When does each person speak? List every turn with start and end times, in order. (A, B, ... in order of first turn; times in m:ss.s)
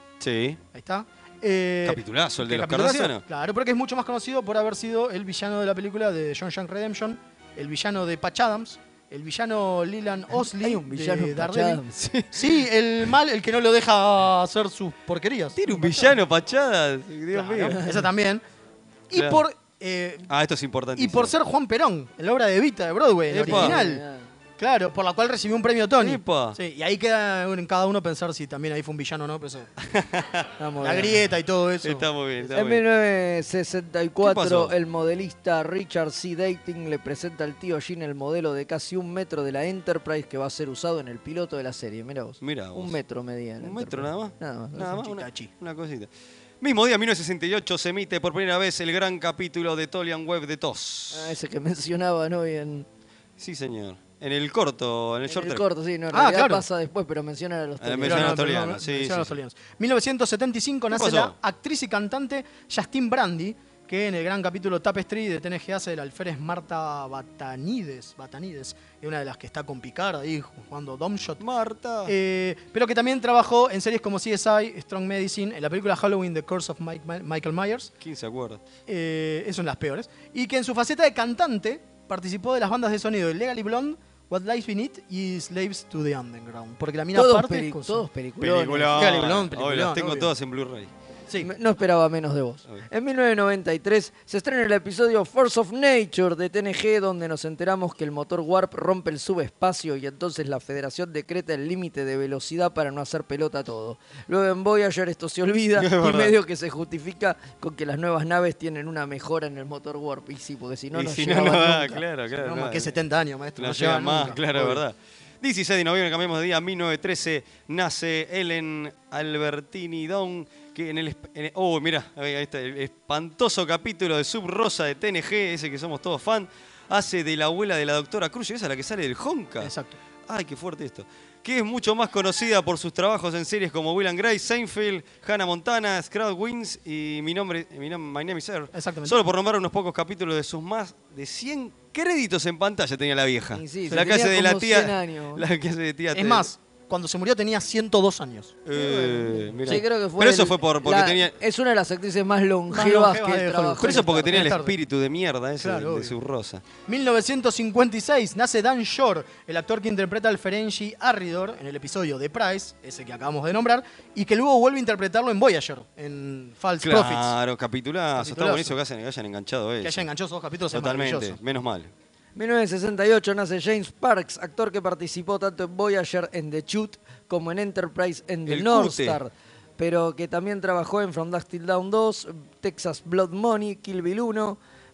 0:00.2-0:00.6 A
0:00.7-0:11.8 B
0:01.8-0:03.2 A
0:10.4-0:11.9 C
0:12.0-0:12.5 A
0:12.3-0:15.6 B
0:15.6-0:17.9 A
0:15.7-0:16.0 C
0:17.3-0:18.4 B
0:19.1-0:20.3 B
0:19.1-0:19.4 A
0:20.3-0:21.3 A
0:21.0-0:24.0 B
0:23.3-0:23.8 A
0:23.4-0:24.3 C
0:24.6-0:29.7 B
0:26.0-0:26.6 A
0:29.8-0:30.5 A
0:30.6-0:31.2 C
0:30.8-0:32.1 B
0:31.8-0:32.8 A
0:32.5-0:45.0 C
0:34.2-0:34.7 A
0:42.4-0:43.0 A
0:43.6-0:46.1 A
0:45.0-0:45.5 B
0:46.6-0:51.4 A
0:51.1-0:52.9 C
0:53.4-0:55.6 A
0:55.3-0:58.6 C
0:56.1-0:56.6 B
0:57.8-0:59.4 A
0:58.0-1:11.4 B
1:00.9-1:01.4 A
1:11.4-1:12.1 A
1:12.0-1:17.9 B
1:18.0-1:18.6 A
1:18.9-1:28.0 B
1:27.2-1:29.4 C
1:28.4-1:30.9 A
1:28.9-1:30.3 B
1:31.4-1:52.0 C
1:45.8-1:46.4 A
1:50.9-1:52.9 A
1:52.4-1:54.8 B
1:53.6-2:09.7 A
2:09.6-2:10.0 B
2:10.3-2:26.5 A
2:18.7-2:19.2 B
2:23.5-2:25.4 C
2:26.1-2:28.6 B
2:28.6-2:31.3 A
2:28.7-2:34.4 C
2:32.7-2:34.7 B
2:33.8-2:36.6 A
2:35.6-2:36.1 B
2:36.9-2:47.4 B
2:46.8-2:50.1 A
2:48.2-2:48.8 B
2:49.8-2:51.4 B
2:50.7-2:51.9 A
2:52.4-3:04.6 C
2:58.5-2:59.2 A